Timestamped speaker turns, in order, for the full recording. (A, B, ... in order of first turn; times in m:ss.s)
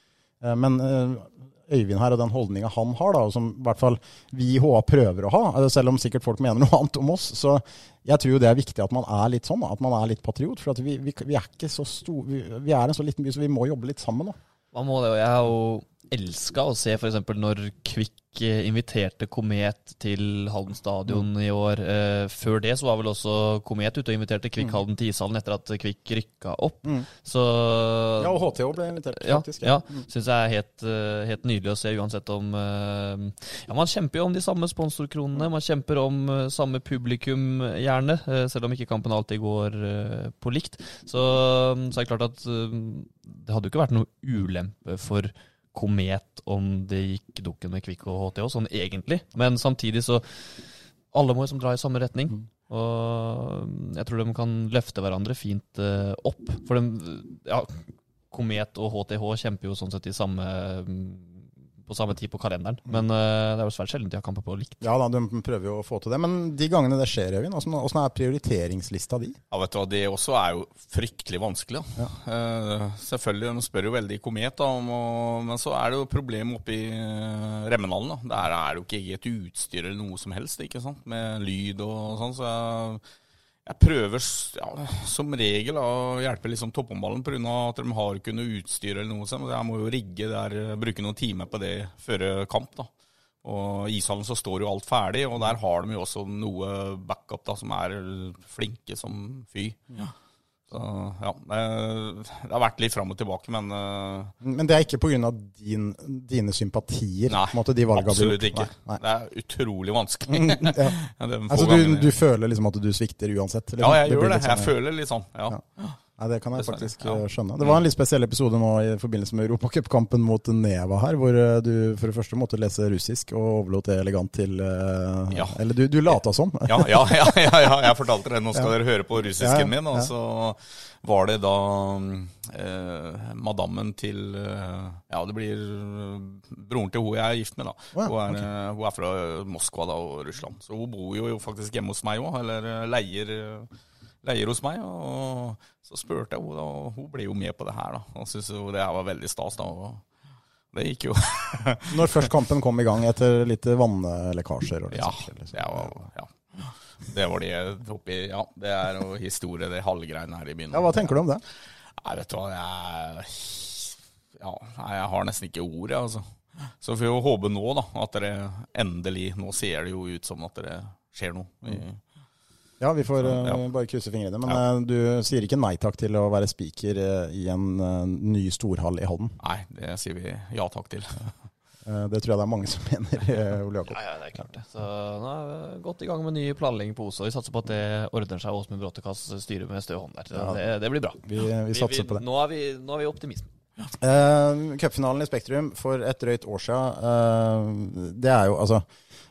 0:00.4-0:14.4 A
0:14.7-0:28.5 B
0:28.2-0:30.0 A
0:29.1-1:04.8 B
1:04.8-1:09.4 A
1:09.5-1:23.0 C
1:23.6-1:32.9 C
1:33.4-1:40.1 C
1:40.7-1:44.3 C
1:44.4-1:49.0 A
1:47.3-1:52.1 C
1:50.3-1:51.0 A
1:51.5-1:54.7 A
1:53.8-1:56.0 C
1:56.2-2:07.4 A
1:56.5-1:57.8 C
2:05.3-2:05.6 C
2:06.6-2:23.7 C
2:09.4-2:10.1 A
2:18.0-2:18.4 A
2:24.2-2:30.0 C
2:30.7-2:32.3 C
2:31.9-2:35.9 A
2:34.9-2:41.2 C
2:40.7-2:41.4 A
2:42.0-2:52.0 C
2:52.8-2:59.4 A
2:53.2-2:53.6 C
2:59.4-3:01.3 C
3:01.8-3:04.0 A
3:03.9-3:13.5 B
3:10.3-3:10.6 A
3:11.2-3:12.2 A
3:14.0-3:18.8 A